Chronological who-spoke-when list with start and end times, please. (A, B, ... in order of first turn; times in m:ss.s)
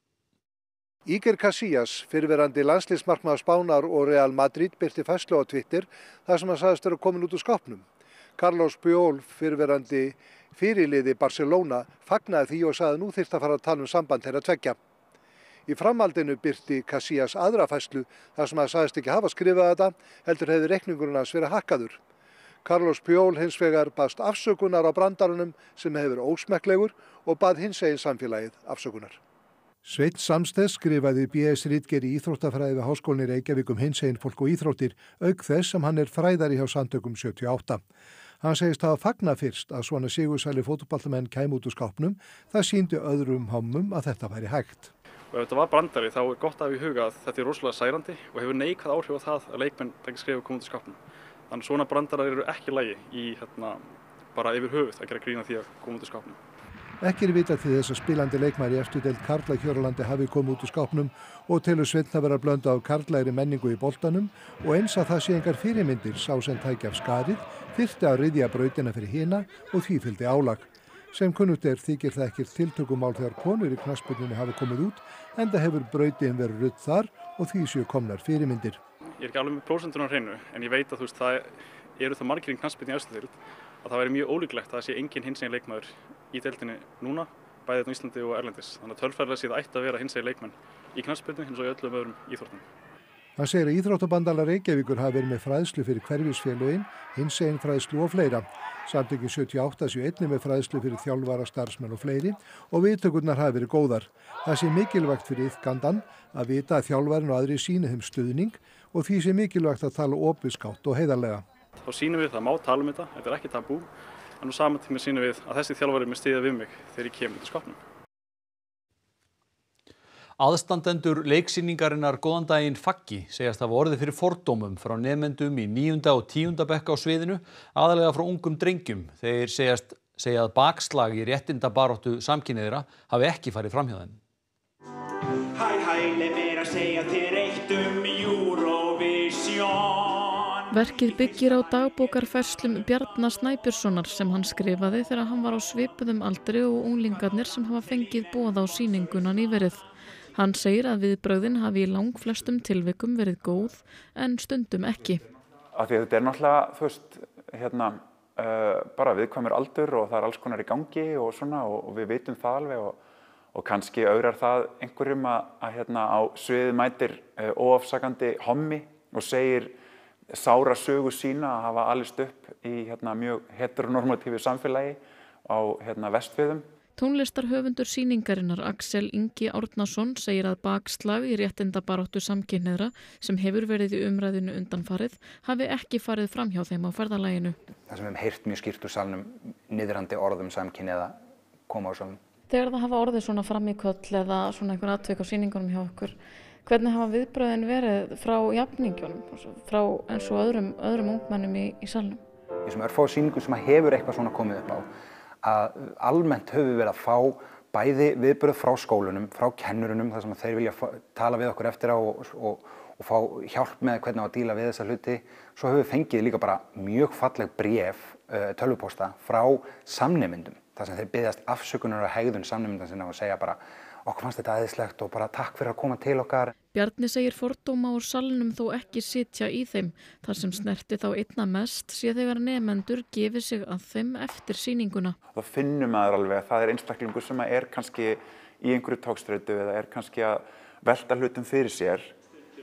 0:01.1-0:07.8 A
0:08.4-0:14.8 A
0:15.7-0:22.0 A
0:22.6-0:29.2 A
0:29.8-0:37.8 A
0:38.4-0:44.9 A
0:45.3-0:51.0 B
0:51.5-0:56.4 B
0:57.0-1:18.8 A
1:19.2-1:32.6 B
1:33.4-1:51.4 A
1:51.8-1:53.9 B
1:54.4-1:57.8 B
2:00.4-2:14.2 C
2:15.5-2:20.7 D
2:20.7-2:35.2 E
2:35.7-2:43.0 F
2:43.5-2:49.8 F
2:50.3-2:56.6 F
2:57.0-3:07.6 E
3:07.9-3:12.2 G
3:12.5-3:22.2 E
3:22.6-3:24.9 G
3:25.4-3:46.5 G
3:46.7-3:55.2 E
3:55.3-4:02.1 F